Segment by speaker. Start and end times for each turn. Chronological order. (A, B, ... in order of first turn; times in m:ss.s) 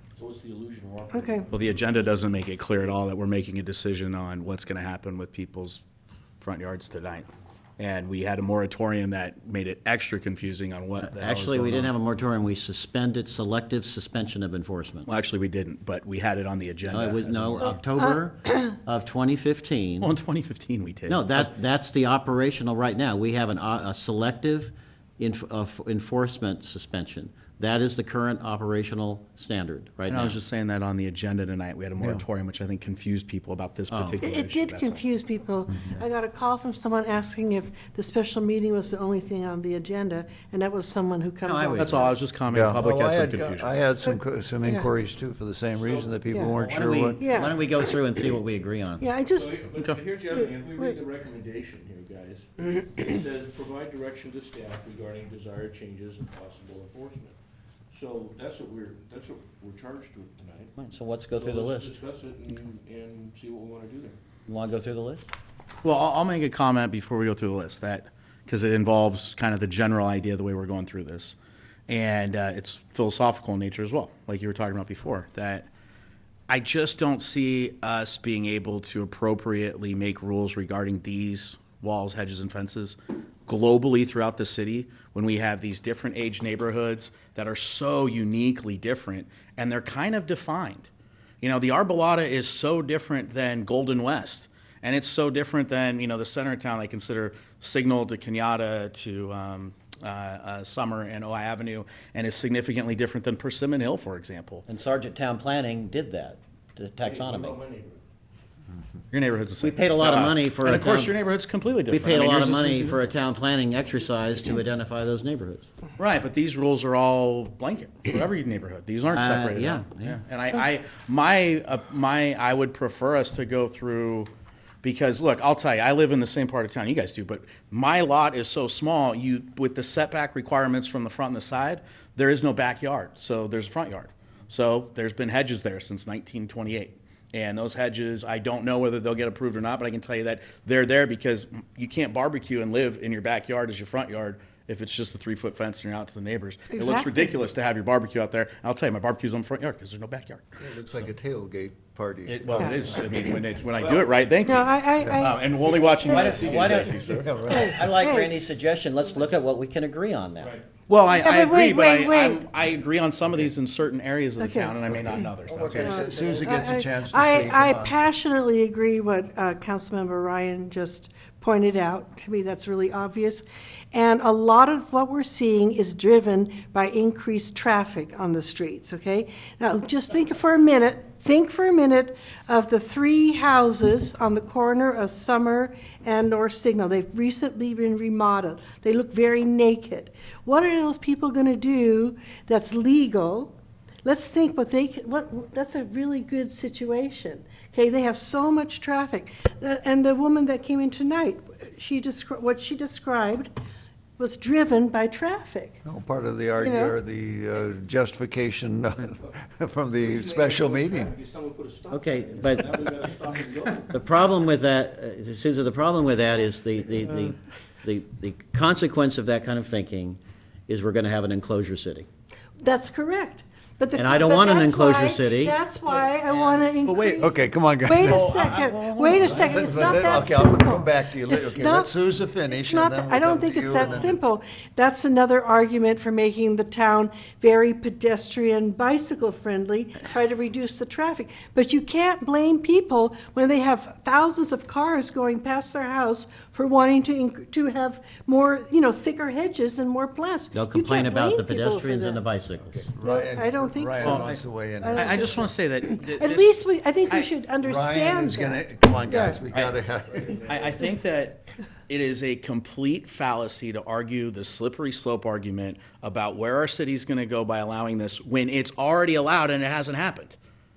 0:00.2-0:01.5 A
0:01.1-0:01.5 B
0:01.5-0:05.8 C
0:06.4-0:11.9 C
0:11.0-0:15.1 D
0:15.1-0:17.8 C
0:16.9-0:20.1 D
0:20.0-0:21.5 C
0:21.1-0:30.4 D
0:30.1-0:35.0 C
0:32.0-0:32.2 E
0:33.9-0:34.2 D
0:34.2-0:42.2 B
0:41.4-0:42.0 D
0:41.8-0:43.8 C
0:42.5-0:47.2 E
0:45.7-0:46.2 A
0:46.5-0:49.0 D
0:47.2-0:47.6 B
0:49.0-0:49.6 B
0:49.3-0:57.4 A
0:50.3-0:51.0 B
0:57.9-1:04.2 A
1:00.8-1:02.0 D
1:04.5-1:05.3 D
1:05.8-1:11.4 C
1:11.9-1:15.7 C
1:16.5-1:30.9 C
1:31.4-1:44.7 C
1:44.7-1:47.6 D
1:47.0-1:48.0 A
1:49.1-1:53.1 C
1:49.6-1:51.2 D
1:51.9-1:55.7 D
1:56.0-2:04.3 C
1:59.1-2:00.2 D
2:04.8-2:30.6 C
2:26.7-2:27.4 B
2:30.6-2:33.0 E
2:32.3-2:37.3 C
2:33.8-2:34.1 A
2:34.5-2:35.5 B
2:35.0-2:35.3 E
2:36.0-2:36.4 B
2:36.0-2:40.6 D
2:36.6-2:37.8 E
2:37.4-2:38.4 B
2:40.9-2:46.0 C
2:41.1-2:42.5 B
2:44.4-2:44.8 B
2:45.5-2:48.0 E
2:45.6-2:46.5 D
2:45.8-3:13.5 B
3:14.0-3:23.5 B
3:24.2-3:25.8 B
3:25.8-3:31.1 E
3:26.6-3:27.0 B
3:30.0-3:34.3 A
3:31.9-3:32.8 D
3:33.9-3:42.1 D
3:42.6-4:12.2 B
3:43.9-3:45.6 D
3:46.3-3:47.4 C
3:47.2-3:48.5 E
3:48.0-3:50.4 C
3:49.2-3:54.2 E
4:10.5-4:12.9 D
4:12.7-4:15.5 E
4:13.0-4:19.4 B
4:14.0-4:17.3 C
4:17.6-4:20.6 E
4:20.2-4:20.9 A
4:20.5-4:30.4 C